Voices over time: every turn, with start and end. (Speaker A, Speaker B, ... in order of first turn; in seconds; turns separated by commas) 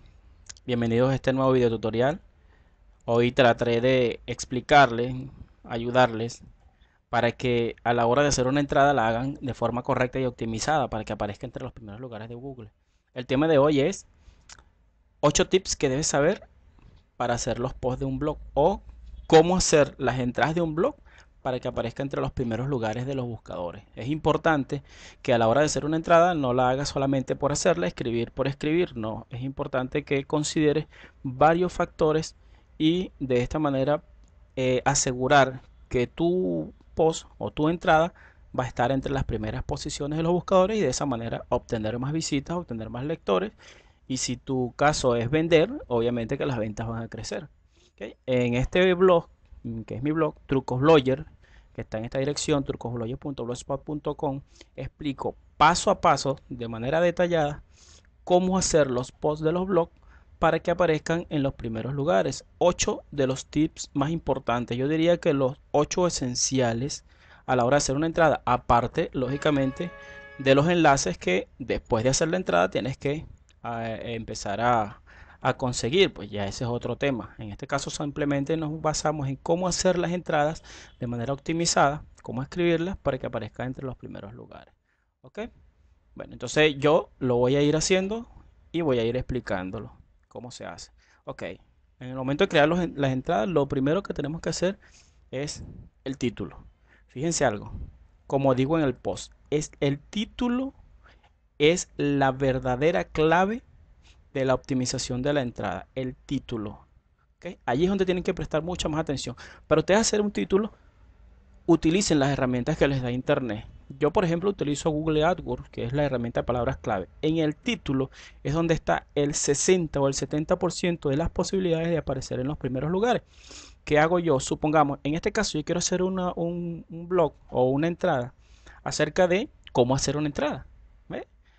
Speaker A: 0.7-2.2, Speaker A: 3.1-6.4, Speaker A: 7.1-14.1, Speaker A: 15.2-16.4, Speaker A: 17.2-34.0, Speaker A: 34.5-43.5, Speaker A: 44.1-57.6, Speaker A: 58.2-85.5, Speaker A: 86.1-94.8, Speaker A: 95.3-97.7, Speaker A: 98.3-100.7, Speaker A: 101.6-103.6, Speaker A: 104.3-106.8, Speaker A: 107.4-110.7, Speaker A: 111.7-123.2, Speaker A: 123.8-128.3, Speaker A: 128.8-131.2